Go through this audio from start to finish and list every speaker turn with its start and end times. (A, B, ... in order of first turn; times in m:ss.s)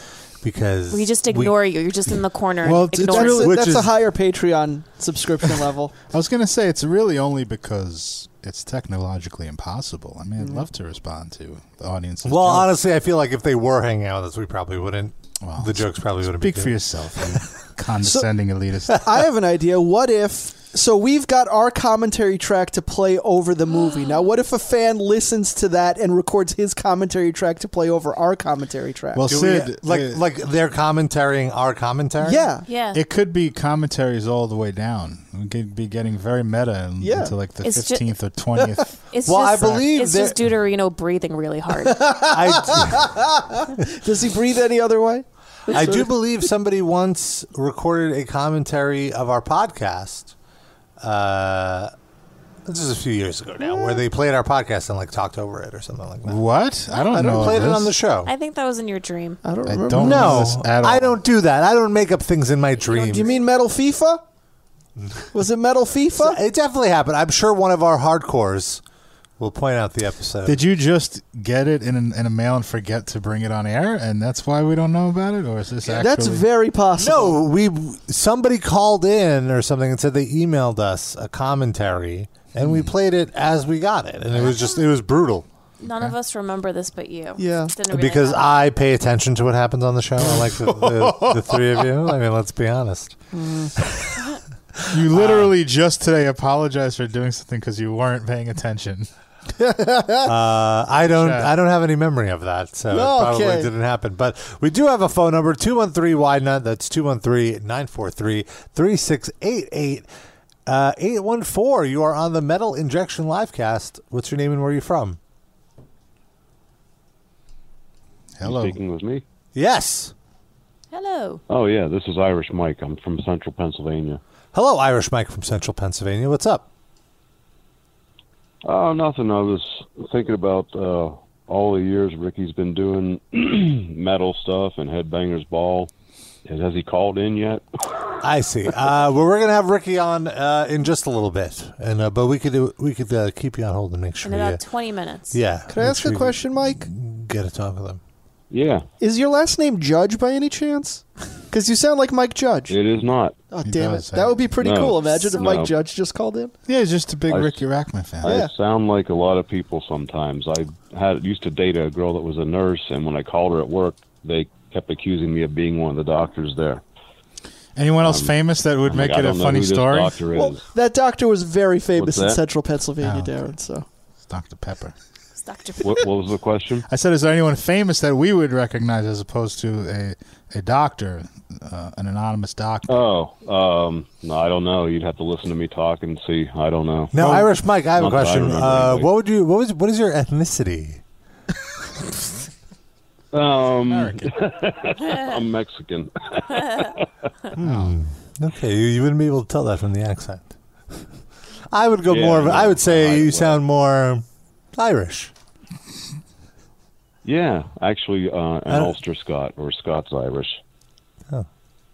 0:00.4-0:01.6 A
0:00.9-0:03.5 B
0:02.6-0:03.3 C
0:02.9-0:05.9 D
0:03.2-0:03.9 A
0:06.1-0:12.7 C
0:10.4-0:10.6 D
0:12.2-0:17.4 A
0:15.4-0:19.0 C
0:19.0-0:29.3 D
0:29.1-0:30.2 C
0:29.3-0:32.5 A
0:32.2-0:32.6 D
0:32.7-0:33.0 B
0:32.9-0:38.9 C
0:37.0-0:37.3 D
0:37.6-0:38.0 B
0:39.1-0:42.0 B
0:39.2-0:40.4 A
0:41.9-0:46.5 D
0:42.3-0:43.1 A
0:45.7-0:50.3 A
0:51.0-0:51.9 A
0:52.6-0:56.4 A
0:56.2-0:57.9 C
0:57.1-0:57.5 D
0:57.1-0:58.3 A
0:58.2-0:59.4 B
0:59.4-1:00.4 D
0:59.6-1:01.2 C
0:59.9-1:03.3 A
1:02.9-1:04.2 D
1:05.0-1:05.3 A
1:05.3-1:06.4 D
1:06.2-1:08.8 A
1:09.4-1:10.6 A
1:10.4-1:16.5 C
1:15.9-1:17.4 D
1:17.0-1:25.4 A
1:22.6-1:22.9 C
1:24.3-1:24.7 C
1:25.8-1:28.4 B
1:25.8-1:26.1 C
1:27.4-1:27.7 D
1:27.9-1:33.2 A
1:30.3-1:31.8 C
1:33.3-1:33.8 D
1:34.9-1:39.1 C
1:35.1-1:35.5 A
1:39.6-1:40.3 D
1:40.2-1:50.1 A
1:41.1-1:41.5 C
1:42.9-1:43.7 D
1:50.6-1:55.2 A
1:58.4-1:58.8 C
1:58.4-1:59.2 E
1:59.5-2:00.1 A
2:00.9-2:01.4 B
2:01.5-2:04.2 E
2:04.5-2:06.7 A
2:08.6-2:15.9 E
2:16.4-2:18.0 E
2:18.2-2:24.6 A
2:24.2-2:25.4 B
2:25.3-2:28.0 A
2:25.7-2:26.9 D
2:28.5-2:28.8 E
2:29.0-2:32.8 D
2:32.7-2:33.3 E
2:33.5-2:36.5 D
2:33.6-2:34.5 C
2:34.6-2:35.7 E
2:35.1-2:35.6 B
2:36.7-2:38.3 C
2:37.3-2:37.6 E
2:38.2-2:46.8 E
2:38.2-2:38.5 D
2:47.8-2:50.2 C
2:48.0-2:48.3 E
2:48.8-2:50.6 E
2:50.3-2:53.8 D
2:52.0-2:52.4 E
2:53.0-2:53.3 C
2:54.3-2:54.9 C
2:55.4-2:56.0 B
2:55.8-2:56.8 E
2:56.9-3:03.0 C
3:02.9-3:07.4 E
3:07.1-3:11.0 A
3:07.1-3:07.5 C
3:08.0-3:09.1 E
3:13.3-3:17.0 E
3:13.9-3:14.3 C
3:17.6-3:21.0 A
3:17.6-3:18.0 C
3:21.7-3:25.3 A
3:22.1-3:23.6 E
3:27.2-3:30.6 E
3:28.7-3:28.9 A